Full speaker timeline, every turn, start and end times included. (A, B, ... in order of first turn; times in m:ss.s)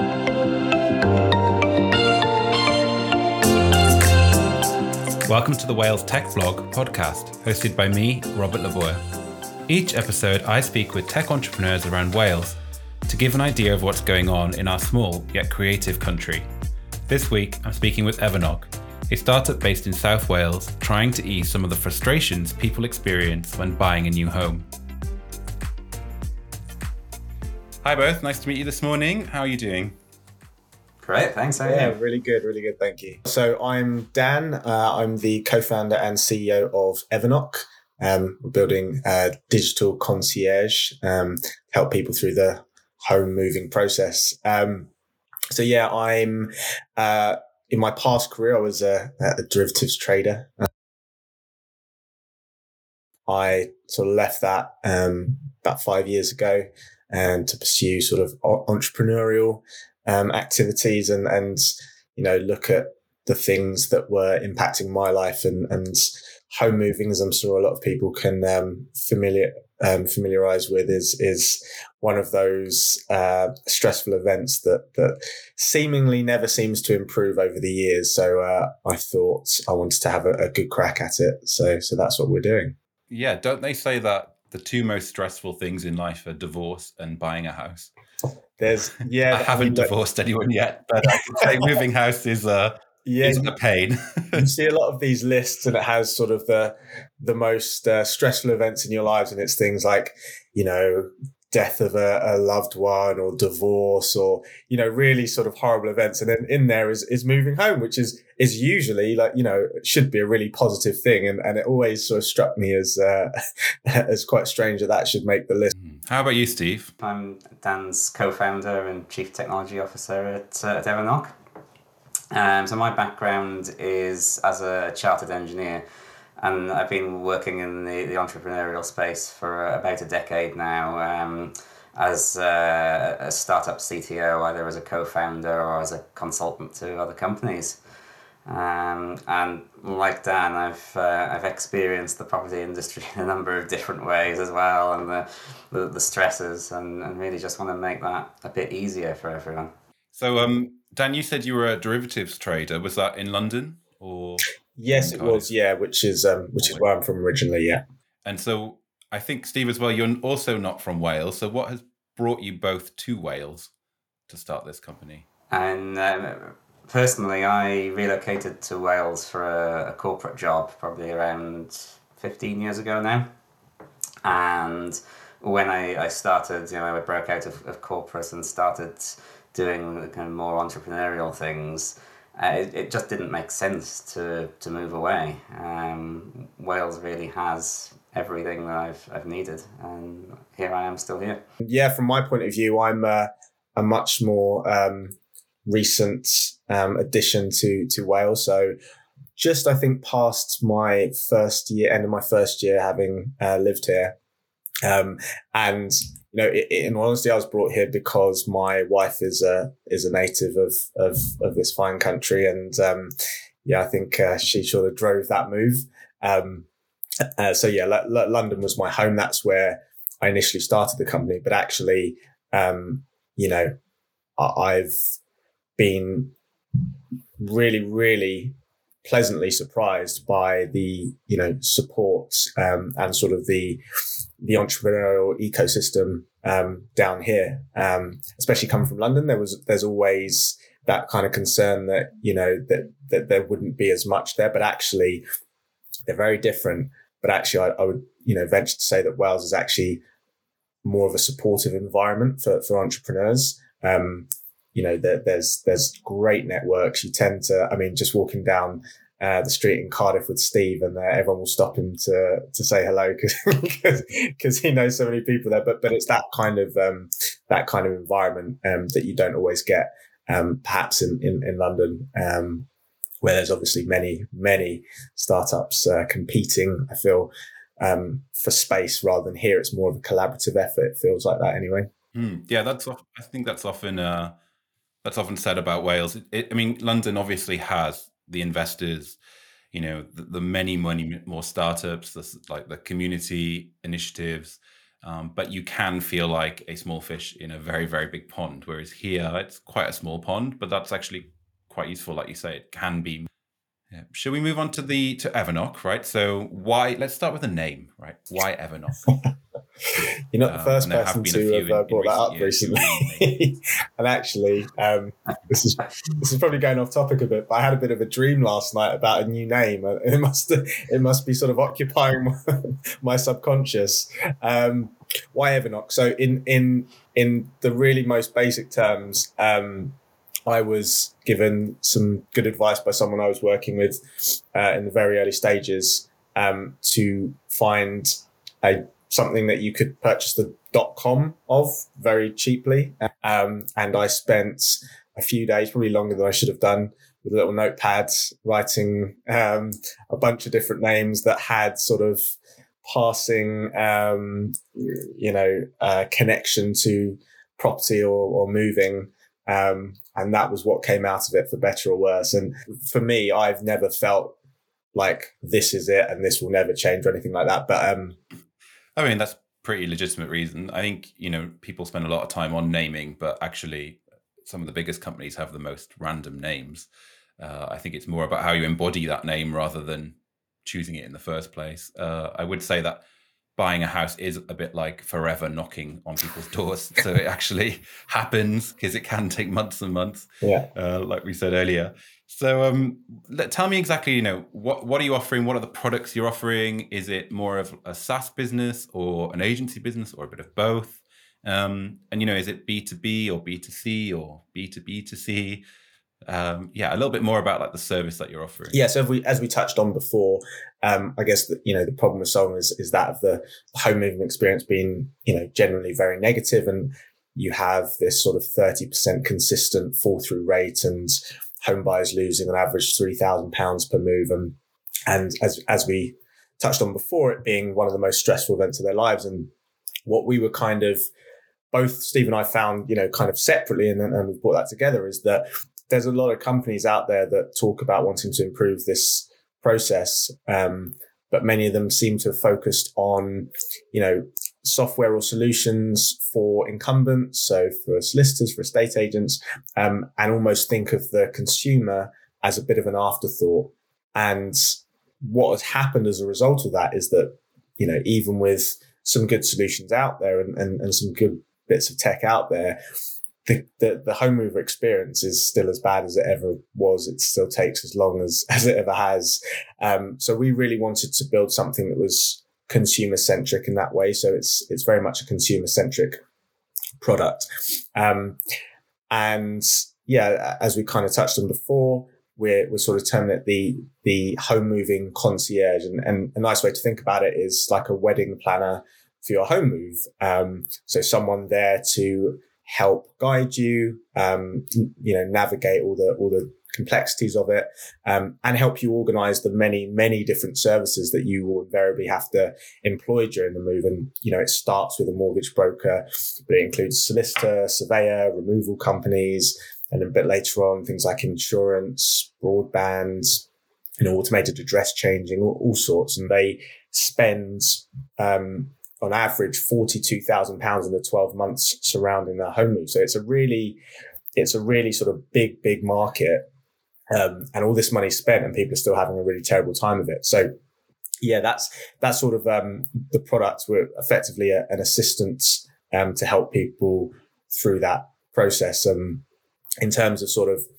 0:05.3-0:09.0 A
0:09.7-0:16.5 A
0:17.1-0:24.6 A
0:27.8-0:30.0 A
0:31.0-0:32.0 B
0:31.6-0:44.9 C
0:45.5-0:50.7 C
0:53.3-1:22.7 C
1:23.1-1:27.9 A
1:28.6-1:29.9 C
1:29.3-1:34.4 A
1:31.2-1:31.6 C
1:33.0-1:33.5 C
1:34.3-1:53.3 C
1:53.8-1:55.7 C
1:55.7-1:56.9 A
1:57.0-2:01.3 B
2:02.3-2:05.8 B
2:06.4-2:17.8 B
2:18.4-2:29.7 B
2:30.1-2:35.5 A
2:34.8-2:37.8 C
2:38.2-2:43.7 A
2:44.3-2:45.2 A
2:45.5-2:53.3 B
2:54.2-3:11.4 B
3:11.6-3:18.7 C
3:19.4-3:24.1 C
3:24.8-3:33.1 C
3:33.6-3:36.6 C
3:37.4-3:43.7 C
3:44.4-3:45.0 C
3:45.8-3:46.3 C
3:47.4-3:53.8 C
3:54.4-4:05.2 C
4:06.1-4:10.0 C
4:10.8-4:32.7 C
4:33.2-4:41.9 C
4:42.1-4:44.4 A
4:45.0-4:49.2 A
4:49.7-5:03.3 A
5:03.9-5:09.1 A
5:10.3-5:52.2 C
5:10.5-5:13.3 A
5:52.8-6:04.3 C
6:04.9-6:08.2 C
6:09.0-6:16.9 A
6:17.4-6:23.0 A
6:23.6-6:45.6 A
6:30.4-6:30.7 C
6:46.3-6:48.8 A
6:48.7-7:04.6 C
7:05.1-7:09.5 C
7:10.1-7:11.0 C
7:11.7-7:42.8 C
7:43.4-7:56.2 C
7:57.0-7:58.4 C
7:59.1-8:33.4 C
8:34.0-8:43.8 C
8:44.3-8:46.4 C
8:47.1-8:50.5 C
8:51.2-8:59.2 C
8:59.8-9:00.6 C